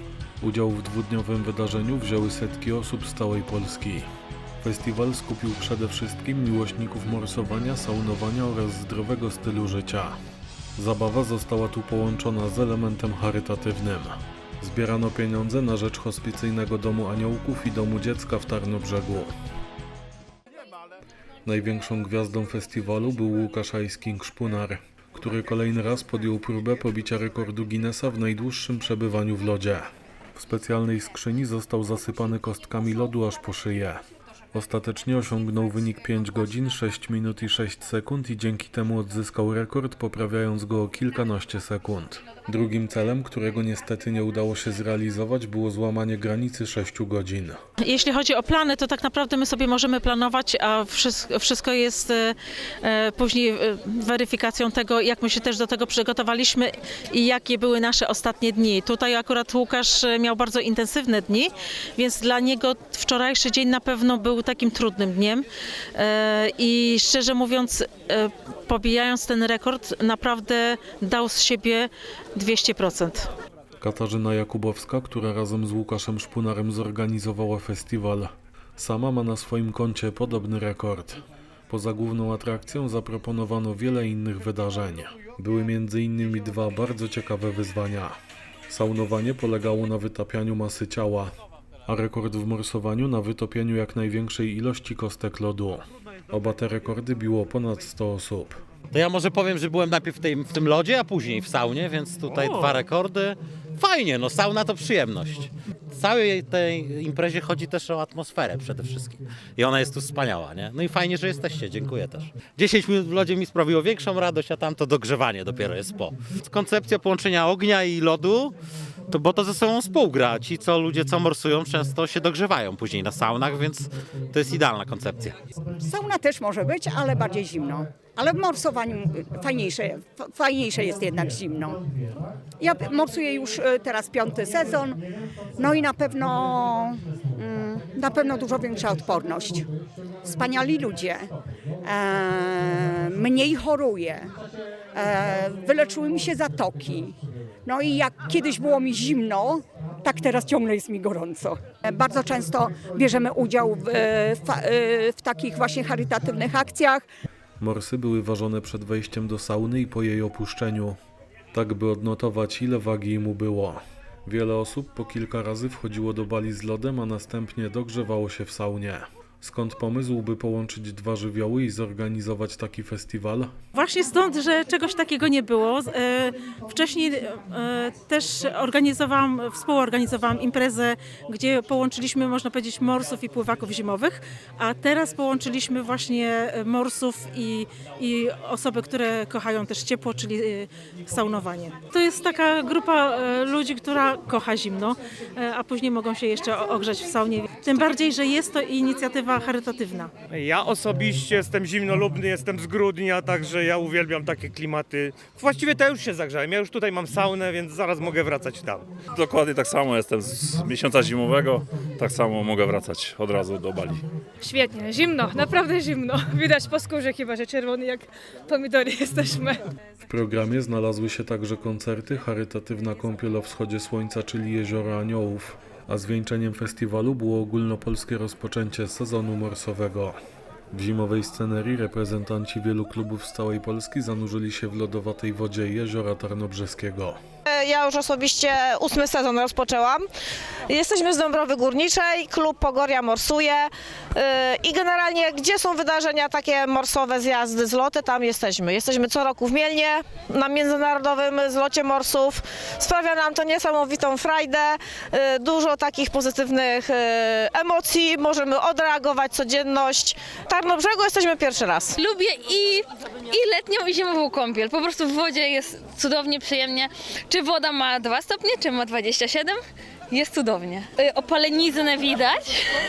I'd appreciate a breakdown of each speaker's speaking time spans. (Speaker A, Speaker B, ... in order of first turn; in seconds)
Speaker A: 0.4-4.1, 4.6-10.2, 10.8-19.3, 21.4-34.0, 34.5-47.6, 73.8-88.1, 88.7-91.3, 91.9-98.6, 157.6-161.0, 161.5-173.5, 220.1-230.2, 230.7-237.2
Speaker B: 47.8-73.3, 173.7-200.1
Speaker C: 98.9-118.5, 119.1-125.4
Speaker D: 125.8-131.8, 132.6-135.0, 135.6-139.7, 140.2-141.3, 141.8-144.3, 144.9-157.1
Speaker E: 200.3-208.9
Speaker F: 209.1-214.0
Speaker G: 214.4-219.6
Speaker H: 237.5-240.0, 240.7-261.9
Speaker I: 261.9-272.6